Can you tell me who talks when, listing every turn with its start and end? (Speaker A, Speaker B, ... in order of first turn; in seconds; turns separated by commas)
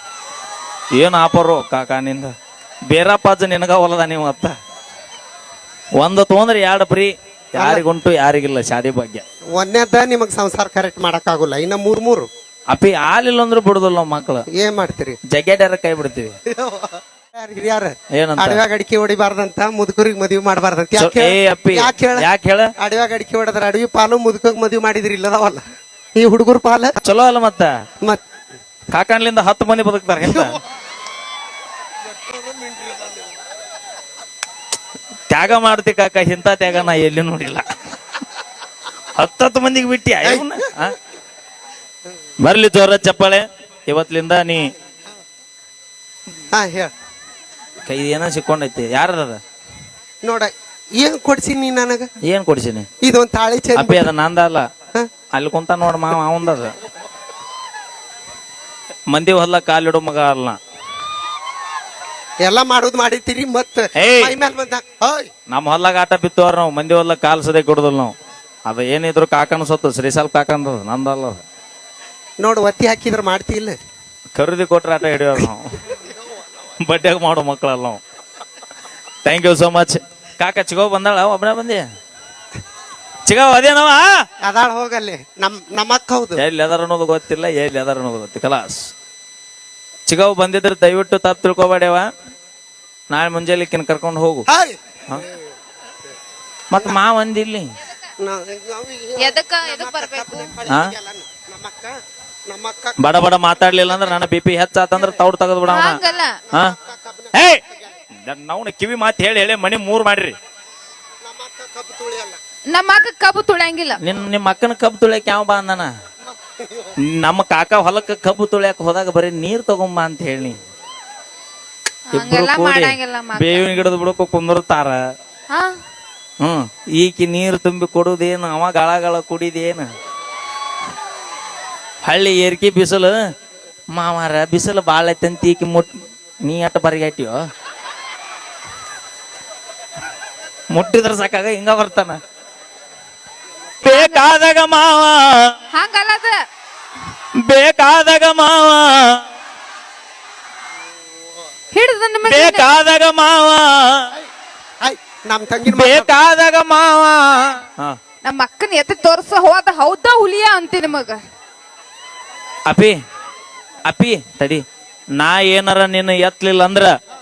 Speaker A: 0.9-2.3, Speaker A: 2.9-4.5, Speaker A: 6.0-9.2, Speaker B: 7.6-7.8, Speaker B: 9.5-12.3, Speaker A: 12.7-14.4, Speaker B: 14.5-15.2, Speaker A: 15.3-16.4, Speaker B: 16.5-22.3, Speaker A: 18.1-18.6, Speaker A: 21.0-22.7, Speaker B: 22.8-25.6, Speaker B: 26.2-26.9, Speaker A: 27.0-27.7, Speaker A: 28.9-30.6, Speaker B: 30.2-30.6, Speaker A: 35.3-37.6, Speaker A: 39.2-41.0, Speaker B: 40.2-40.7, Speaker A: 42.4-44.7, Speaker B: 46.5-46.9, Speaker A: 47.8-49.4, Speaker B: 50.2-52.1, Speaker A: 52.2-52.9, Speaker B: 53.0-54.1, Speaker A: 53.8-54.7, Speaker A: 55.3-56.8, Speaker A: 59.1-60.6, Speaker B: 62.4-65.3, Speaker A: 64.0-64.3, Speaker A: 65.5-68.1, Speaker A: 68.7-71.4, Speaker B: 72.4-73.8, Speaker A: 74.3-75.8, Speaker A: 76.8-78.0, Speaker A: 79.2-81.9, Speaker A: 83.2-84.2, Speaker B: 84.4-86.4, Speaker A: 86.4-88.9, Speaker A: 90.0-92.1, Speaker A: 93.1-94.5, Speaker B: 94.5-94.8, Speaker A: 96.7-97.7, Speaker B: 98.2-102.0, Speaker C: 99.2-100.5, Speaker A: 100.7-100.9, Speaker B: 102.5-103.0, Speaker A: 103.0-106.0, Speaker B: 103.7-104.1, Speaker C: 105.7-106.4, Speaker B: 106.5-107.4, Speaker A: 107.3-107.6, Speaker A: 108.2-110.4, Speaker B: 111.2-112.4, Speaker C: 112.7-114.0, Speaker A: 114.0-115.9, Speaker B: 116.6-117.0, Speaker A: 117.0-120.6, Speaker C: 122.1-123.8, Speaker A: 122.1-125.0, Speaker C: 125.5-125.8, Speaker A: 126.4-129.9, Speaker A: 132.1-133.2, Speaker A: 133.9-135.9, Speaker A: 136.4-137.4, Speaker A: 140.7-142.2, Speaker C: 143.8-144.3, Speaker A: 143.8-145.6, Speaker C: 145.7-146.4, Speaker A: 147.4-149.2, Speaker C: 151.7-152.7, Speaker A: 152.2-154.1, Speaker B: 154.8-156.1, Speaker A: 155.6-158.0, Speaker C: 158.2-161.2, Speaker A: 162.7-163.0, Speaker A: 163.9-164.6, Speaker A: 165.2-166.9